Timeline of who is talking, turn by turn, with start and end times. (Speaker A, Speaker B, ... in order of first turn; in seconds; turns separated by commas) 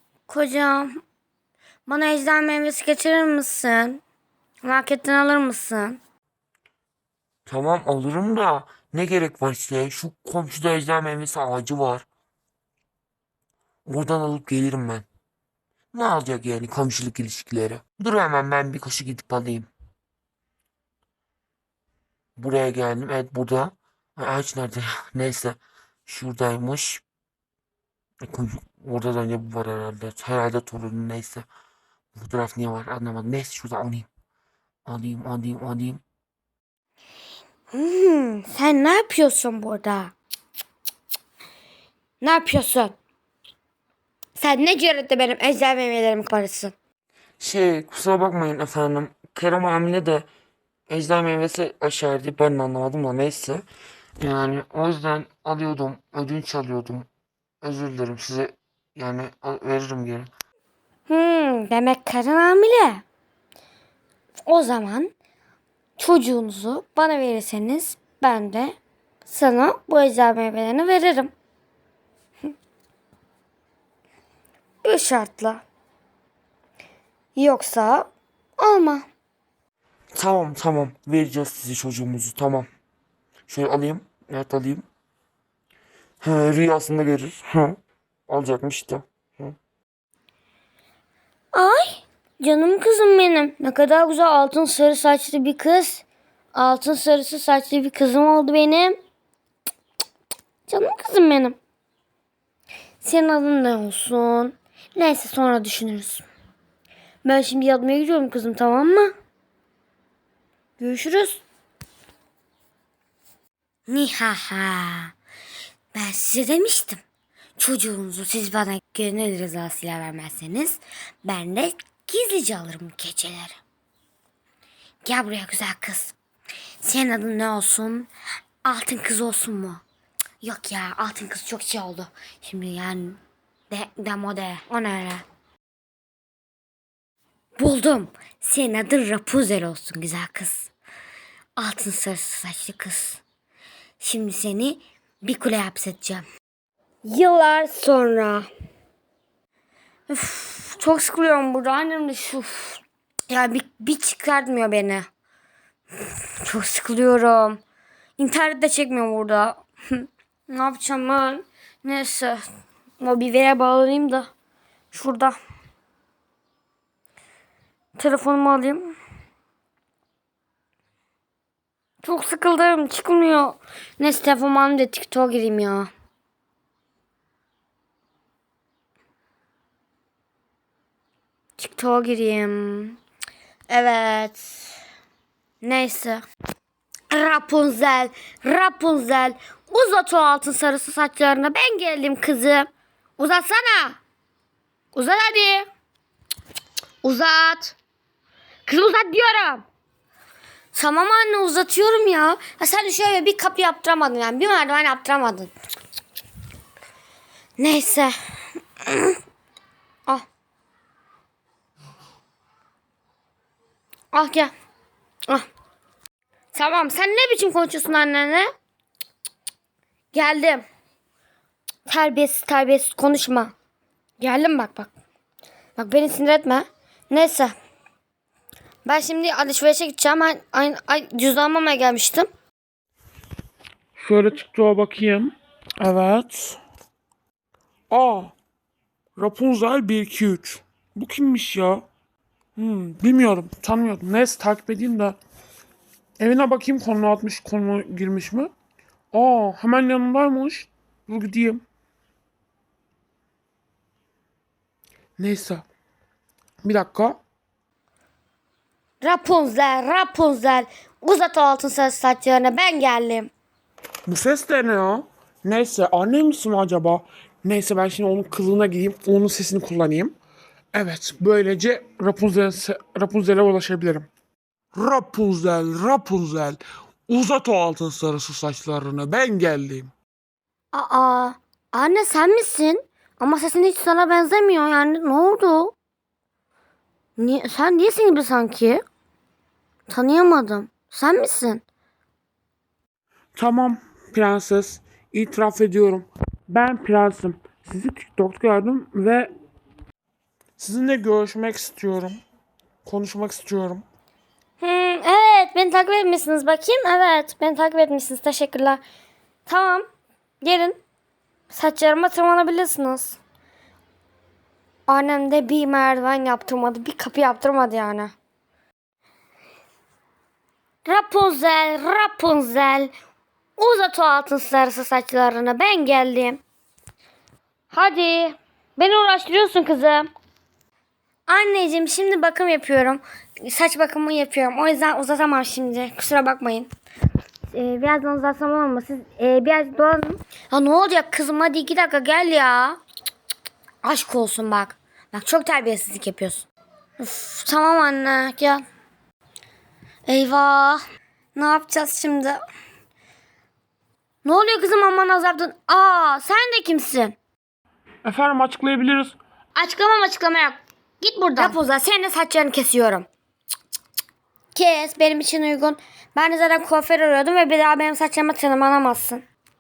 Speaker A: 0.3-0.9, Speaker A: 1.9-4.0, Speaker A: 4.6-6.0, Speaker B: 7.5-12.1, Speaker B: 13.9-15.1, Speaker B: 15.9-19.7, Speaker B: 22.4-27.0, Speaker B: 28.3-31.5, Speaker B: 32.2-34.1, Speaker B: 34.9-36.0, Speaker A: 37.7-40.1, Speaker A: 42.2-43.0, Speaker A: 44.4-46.7, Speaker B: 47.4-50.3, Speaker B: 50.9-53.6, Speaker B: 54.2-57.1, Speaker B: 57.6-60.3, Speaker A: 61.1-63.0, Speaker A: 64.5-65.1, Speaker A: 66.0-71.3, Speaker A: 74.8-75.6, Speaker A: 77.3-79.1, Speaker B: 80.1-82.7, Speaker B: 83.5-84.8, Speaker B: 86.2-89.5, Speaker A: 91.5-99.0, Speaker A: 100.7-101.6, Speaker A: 103.0-106.2, Speaker A: 107.2-109.1, Speaker A: 110.8-111.4, Speaker A: 113.9-115.1, Speaker A: 115.9-117.0, Speaker A: 117.6-123.6, Speaker A: 125.0-126.2, Speaker A: 126.8-128.1, Speaker A: 128.6-129.8, Speaker A: 130.4-135.2, Speaker A: 137.6-140.7, Speaker A: 141.6-143.2, Speaker A: 144.0-146.2, Speaker A: 147.0-148.5, Speaker A: 150.1-155.1, Speaker A: 156.4-157.6, Speaker A: 158.2-162.4, Speaker A: 163.0-164.3, Speaker A: 164.9-165.4, Speaker A: 168.0-168.9, Speaker A: 172.0-175.9, Speaker A: 181.6-183.0, Speaker A: 183.7-184.7, Speaker A: 185.6-186.2, Speaker A: 187.1-194.0, Speaker A: 194.9-195.7, Speaker A: 197.0-197.8, Speaker A: 198.7-199.7, Speaker A: 200.7-205.5, Speaker A: 207.6-208.1, Speaker A: 208.9-209.2, Speaker A: 214.1-214.5, Speaker A: 216.5-218.5, Speaker A: 220.1-220.6, Speaker A: 221.9-223.5, Speaker A: 224.2-224.9, Speaker A: 225.8-227.5, Speaker A: 228.8-232.3, Speaker C: 234.0-236.6, Speaker C: 237.9-238.3, Speaker C: 239.2-241.9, Speaker C: 242.6-245.2, Speaker C: 246.2-248.5, Speaker C: 249.1-251.6, Speaker C: 255.2-255.7, Speaker C: 256.6-257.2, Speaker A: 259.0-263.3, Speaker C: 264.1-270.1, Speaker C: 270.7-274.1, Speaker C: 274.7-279.9, Speaker A: 280.7-285.7, Speaker A: 287.2-288.8, Speaker A: 289.9-291.6, Speaker C: 293.4-299.3, Speaker C: 300.6-302.2, Speaker C: 302.9-303.8, Speaker A: 304.6-308.8, Speaker A: 309.5-309.9, Speaker A: 310.4-310.8, Speaker A: 311.5-313.2, Speaker A: 314.9-318.1, Speaker A: 320.9-322.9, Speaker A: 323.6-326.4, Speaker A: 327.7-330.1, Speaker A: 331.3-336.7, Speaker A: 337.5-342.8, Speaker A: 343.8-346.5, Speaker A: 347.0-348.6, Speaker A: 350.1-350.8, Speaker A: 351.4-352.4, Speaker A: 354.2-357.2, Speaker C: 358.0-359.2, Speaker A: 359.6-363.1, Speaker A: 364.5-369.2